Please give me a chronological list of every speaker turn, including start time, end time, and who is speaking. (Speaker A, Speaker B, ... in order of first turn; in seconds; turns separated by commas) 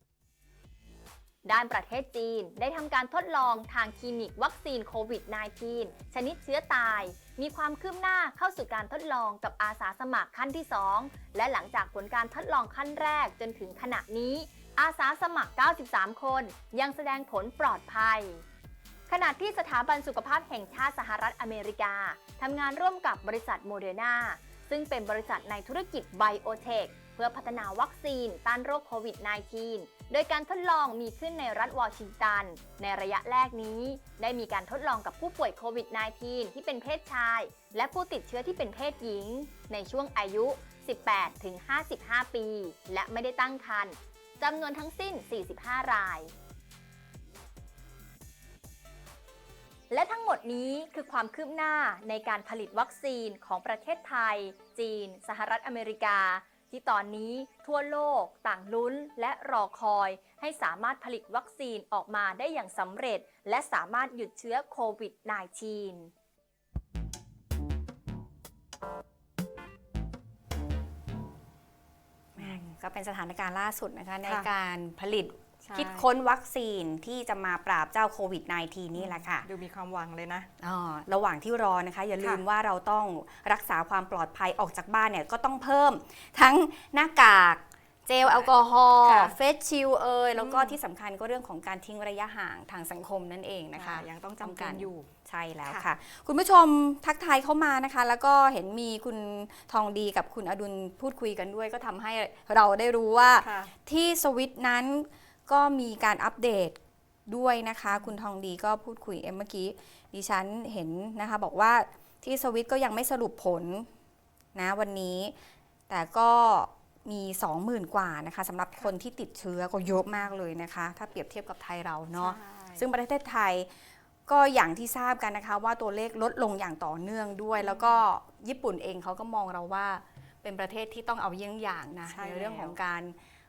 Speaker A: 1.4-18.4, Speaker A: 19.1-46.3, Speaker A: 49.9-66.1, Speaker B: 72.3-79.5, Speaker C: 75.6-76.0, Speaker C: 79.0-80.5, Speaker B: 80.6-113.9, Speaker C: 88.2-88.5, Speaker C: 89.0-89.3, Speaker C: 90.4-90.8, Speaker C: 93.8-95.1, Speaker C: 103.4-103.7, Speaker B: 114.5-115.3, Speaker B: 115.9-123.7, Speaker C: 122.2-122.8, Speaker B: 124.3-133.2, Speaker C: 127.6-128.0, Speaker C: 132.1-132.8